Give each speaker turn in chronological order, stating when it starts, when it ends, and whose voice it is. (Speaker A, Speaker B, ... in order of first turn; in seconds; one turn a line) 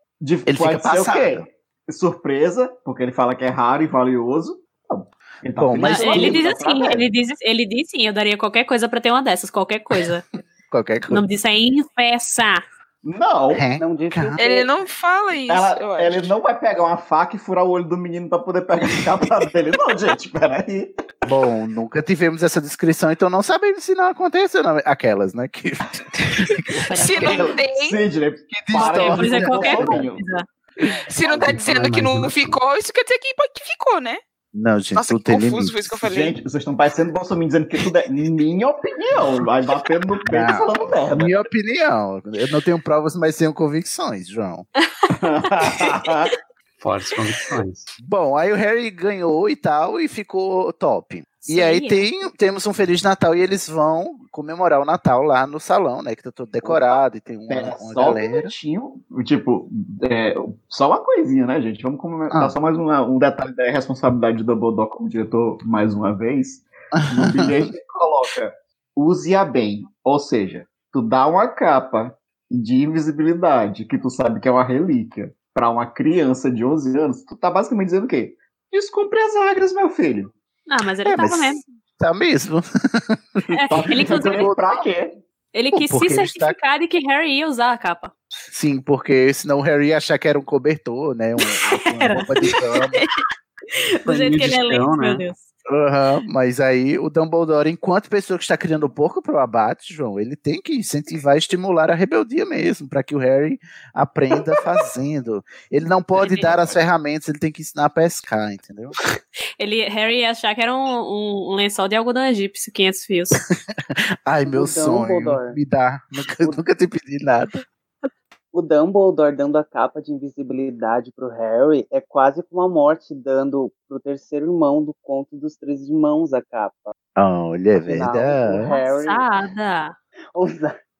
Speaker A: 0.2-7.0
Speaker B: 0.5-1.5
Speaker B: 5.5-6.4
Speaker C: 5.9-10.2
Speaker B: 10.7-11.2
Speaker C: 11.1-12.6
Speaker A: 13.0-13.7
Speaker B: 13.5-14.4
Speaker D: 13.8-14.7
Speaker E: 14.4-16.3
Speaker A: 15.4-20.9
Speaker B: 21.2-26.6
Speaker A: 26.7-30.2
Speaker C: 26.9-27.4
Speaker E: 27.0-28.0
Speaker B: 28.6-30.1
Speaker C: 28.8-30.4
Speaker E: 31.1-34.2
Speaker A: 31.2-31.6
Speaker F: 31.4-32.6
Speaker B: 34.5-36.0
Speaker E: 35.0-36.4
Speaker A: 36.0-41.4
Speaker B: 40.3-44.7
Speaker A: 45.1-46.3
Speaker F: 46.8-47.9
Speaker B: 48.0-58.5
Speaker C: 51.5-52.0
Speaker A: 56.6-80.3
Speaker B: 66.9-67.6
Speaker C: 80.7-81.6
Speaker B: 81.0-84.6
Speaker C: 83.5-84.5
Speaker A: 83.7-85.2
Speaker C: 85.5-88.1
Speaker B: 85.7-86.5
Speaker B: 88.5-93.0
Speaker C: 91.7-92.2
Speaker C: 92.9-93.2
Speaker C: 94.0-95.4
Speaker F: 94.0-95.2
Speaker B: 95.7-108.9
Speaker C: 106.2-106.5
Speaker C: 109.6-113.4
Speaker B: 114.2-117.6
Speaker D: 114.5-115.6
Speaker D: 118.5-126.9
Speaker B: 127.2-128.7
Speaker D: 127.8-129.2
Speaker C: 128.7-129.9
Speaker D: 130.3-130.8